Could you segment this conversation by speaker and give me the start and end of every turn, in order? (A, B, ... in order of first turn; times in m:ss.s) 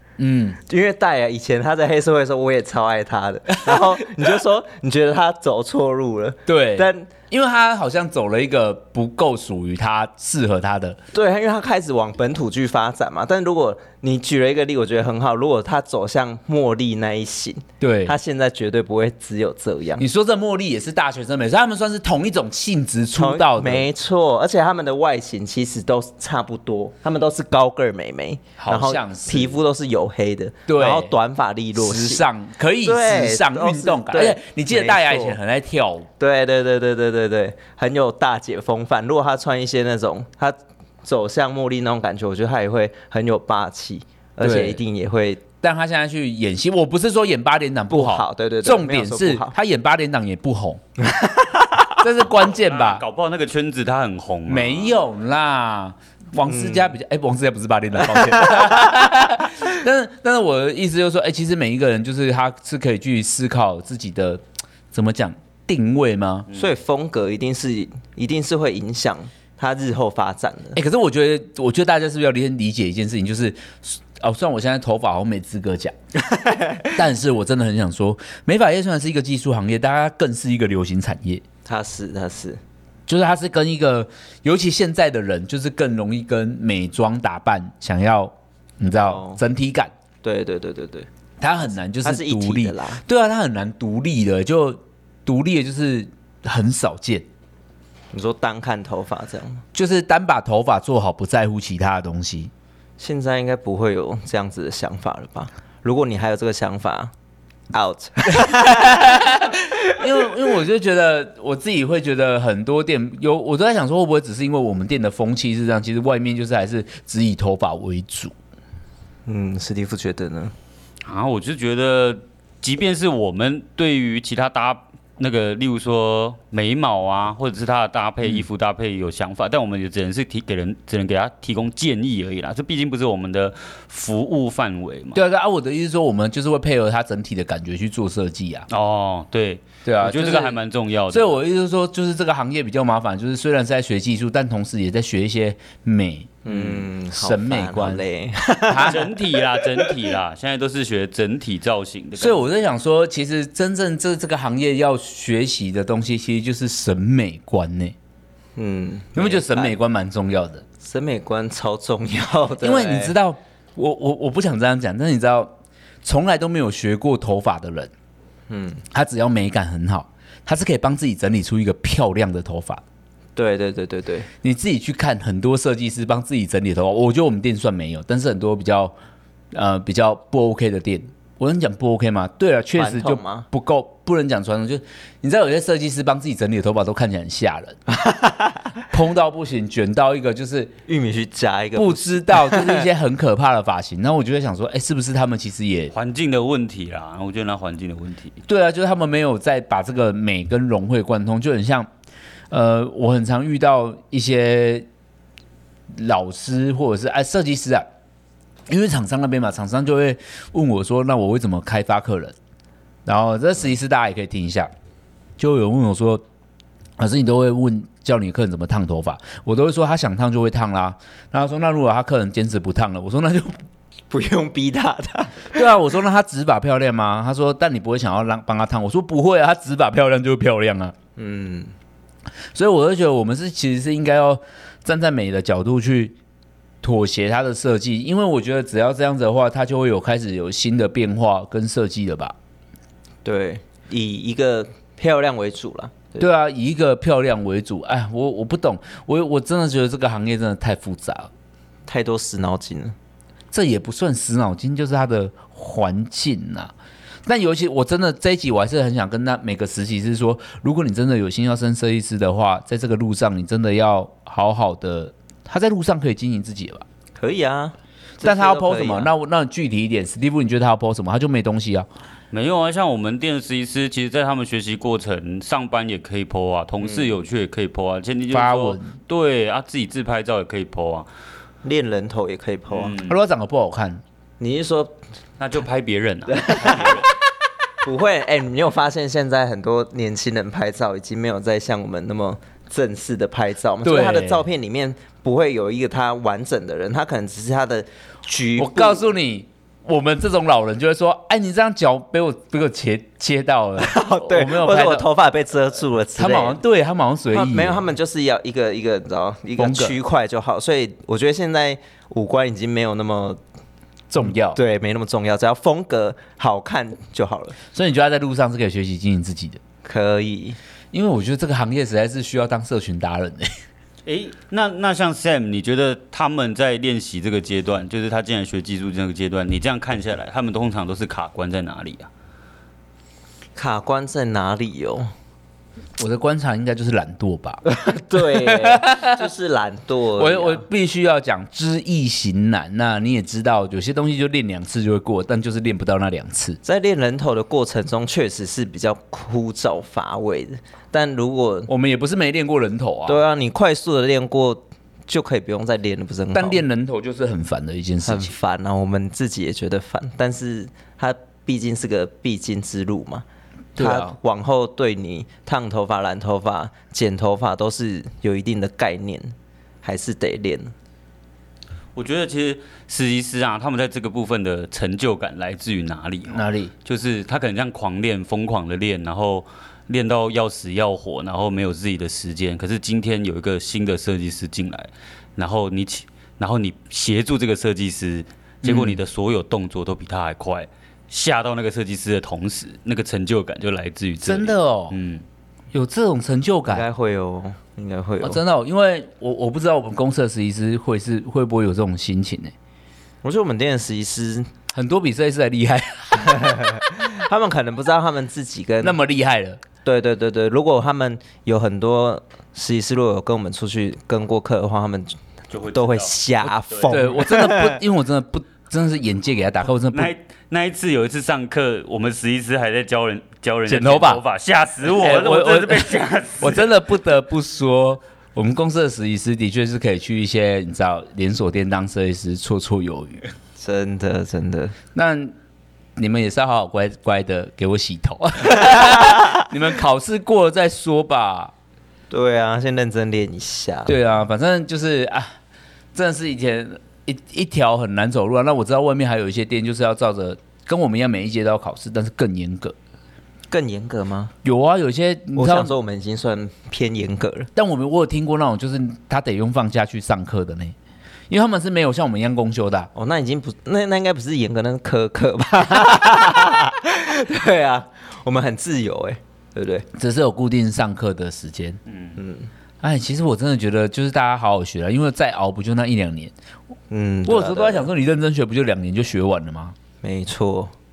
0:00.2-0:00.6 A
0:00.6-0:07.1 B
0:03.7-0:03.9 A
0:06.5-0:11.0 A
0:11.1-0:20.0 B
0:17.8-0:18.2 A
0:20.0-0:23.9 A
0:23.2-0:32.2 B
0:28.6-0:29.6 A
0:30.7-0:31.1 A
0:31.7-0:36.1 A
0:32.8-0:35.4 B
0:36.2-0:45.4 B
0:44.4-0:44.8 A
0:45.6-0:50.8 A
0:47.9-0:49.5 B
0:51.0-0:51.9 B
0:52.0-0:53.0 A
0:52.4-0:54.9 C
0:54.5-1:06.5 A
0:56.4-0:56.9 B
1:06.5-1:10.8 B
1:10.7-1:15.9 A
1:16.3-1:16.9 B
1:16.9-1:21.4 A
1:21.6-1:22.6 B
1:23.1-1:29.9 A
1:29.0-1:29.4 B
1:30.2-1:31.1 B
1:31.4-1:37.2 A
1:32.0-1:33.0 B
1:38.1-1:39.6 B
1:39.7-1:42.5 A
1:43.0-1:47.1 B
1:47.7-1:49.1 B
1:48.4-1:58.3 A
1:59.2-2:00.5 B
2:01.0-2:15.2 C
2:15.1-2:18.7 A
2:18.7-2:21.3 C
2:19.8-2:20.6 A
2:21.1-2:28.0 A
2:26.4-2:29.8 B
2:28.7-2:29.1 A
2:28.8-2:32.4 C
2:32.2-2:37.9 A
2:38.6-2:39.7 B
2:39.1-2:40.6 A
2:40.8-2:43.1 B
2:42.6-2:45.5 A
2:46.0-2:47.9 A
2:48.5-2:48.8 B
2:48.9-2:52.8 A
2:53.4-2:54.3 B
2:54.4-2:58.9 A
2:59.5-3:07.8 A
3:02.8-3:03.4 B
3:07.9-3:08.6 B
3:08.9-3:10.7 A
3:10.9-3:12.8 B
3:11.7-3:15.9 A
3:15.9-3:18.4 C
3:18.5-3:21.9 A
3:22.5-3:24.8 A
3:25.9-3:27.8 A
3:28.7-3:32.3 A
3:33.0-3:34.7 A
3:35.4-3:36.2 A
3:37.0-3:43.6 A
3:44.1-3:45.7 B
3:45.5-3:50.9 A
3:51.2-3:51.7 B
3:52.5-3:56.2 A
3:56.8-4:02.3 A
4:03.2-4:06.3 B
4:06.2-4:11.3 A
4:11.9-4:12.9 B
4:13.5-4:16.7 A
4:17.2-4:26.8 A
4:27.2-4:29.1 B
4:28.2-4:31.9 A
4:32.3-4:41.1 C
4:36.8-4:37.1 B
4:38.3-4:38.9 A
4:41.6-4:42.9 B
4:42.7-4:43.2 C
4:43.0-4:44.0 A
4:44.4-4:45.0 B
4:45.4-4:47.1 C
4:46.3-4:47.1 B
4:47.8-4:59.1 B
4:53.8-4:54.4 A
4:58.6-5:05.1 A
5:03.8-5:06.6 B
5:06.2-5:07.8 A
5:07.3-5:13.4 B
5:09.6-5:10.0 A
5:14.1-5:14.6 A
5:14.4-5:17.6 B
5:17.7-5:19.6 A
5:19.8-5:20.6 B
5:20.9-5:23.5 A
5:24.0-5:32.1 C
5:33.6-5:35.1 B
5:36.0-5:37.6 A
5:37.6-5:40.6 B
5:38.2-5:39.2 A
5:40.2-5:46.6 A
5:46.6-5:51.7 B
5:51.7-5:53.2 A
5:53.1-5:56.6 B
5:56.3-5:58.3 A
5:58.0-6:03.2 B
6:03.8-6:04.2 A
6:03.8-6:10.7 B
6:11.9-6:35.2 C
6:16.3-6:16.7 A
6:28.6-6:29.0 A
6:34.2-6:34.9 A
6:35.7-6:36.8 A
6:36.7-6:38.4 B
6:38.2-6:42.5 A
6:43.2-6:44.5 B
6:44.7-6:46.8 A
6:46.2-6:49.0 B
6:48.8-6:49.6 A
6:49.8-6:55.2 B
6:55.5-6:57.0 C
6:55.7-6:57.8 B
6:56.9-7:00.1 A
6:59.9-7:06.7 C
7:03.7-7:04.2 A
7:04.9-7:13.2 A
7:13.6-7:14.7 B
7:14.9-7:15.3 A
7:16.0-7:21.5 A
7:18.6-7:19.4 B
7:22.1-7:24.0 B
7:23.9-7:25.3 A
7:25.9-7:32.8 A
7:33.5-7:34.3 B
7:34.4-7:35.7 A
7:35.4-7:37.5 B
7:37.6-7:40.7 A
7:41.3-7:42.9 A
7:42.9-7:49.8 B
7:49.9-7:51.8 A
7:51.9-7:52.1 C
7:52.2-7:52.5 B
7:52.8-7:56.3 A
7:56.9-7:57.9 B
7:57.2-7:59.7 A
8:00.0-8:00.7 B